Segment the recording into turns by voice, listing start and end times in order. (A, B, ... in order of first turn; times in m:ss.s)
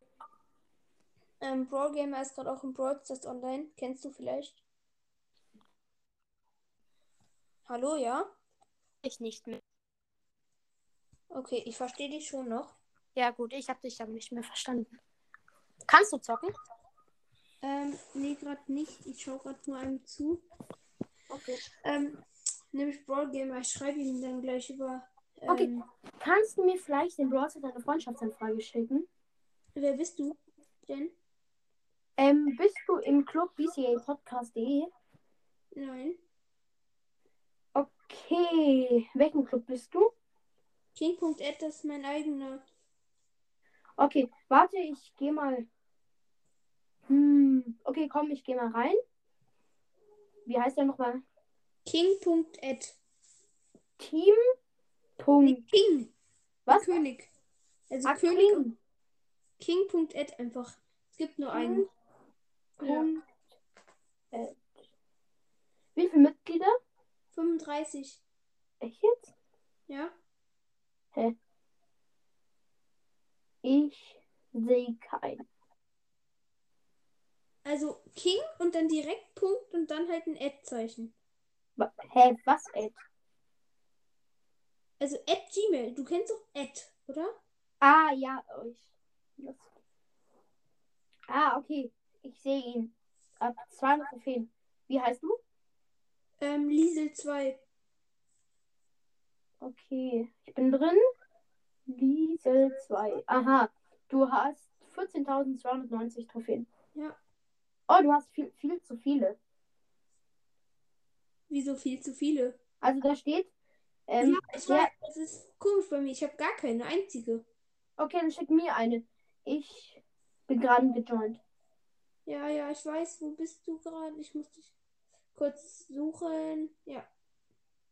0:01.4-0:04.6 A
0:07.7-0:08.4 A
0:09.0-0:09.6 B
0:11.3-0:12.8 A
0:13.2-0:15.0 B
0:15.9-0:16.5 B
0:17.6-0:20.4 A
0:21.3-0:21.6 B
0:21.8-0:25.9 A
0:25.5-0:29.1 B
0:29.8-0:31.1 A
0:32.2-0:34.9 B
0:35.7-0:36.2 A
0:37.8-0:40.1 B
0:41.0-0:42.6 A
0:44.0-0:45.7 B
0:47.1-0:49.0 B
0:50.5-0:51.2 B
0:51.8-0:53.0 A
0:54.0-0:54.4 B
0:55.2-0:55.6 B
0:55.4-0:56.1 A
0:56.7-0:57.3 A
0:57.9-0:58.6 A
0:58.1-0:58.8 B
0:59.6-1:01.9 A
1:01.5-1:01.9 B
1:02.8-1:03.2 B
1:02.8-1:03.2 A
1:04.3-1:04.6 B
1:06.0-1:06.8 B
1:07.3-1:08.2 A
1:08.8-1:09.3 B
1:09.9-1:10.2 A
1:13.6-1:15.4 B
1:17.6-1:21.1 A
1:21.8-1:23.0 B
1:25.0-1:27.4 A
1:27.8-1:28.9 B
1:29.4-1:29.7 B
1:31.3-1:35.4 B
1:36.4-1:37.6 A
1:39.6-1:41.0 B
1:41.9-1:46.7 B
1:46.9-1:47.2 A
1:47.9-1:49.4 B
1:51.5-1:52.6 A
1:52.8-1:53.5 B
1:54.1-1:54.9 B
1:54.2-1:57.4 A
1:58.0-2:01.4 B
2:02.3-2:04.7 A
2:05.3-2:07.1 A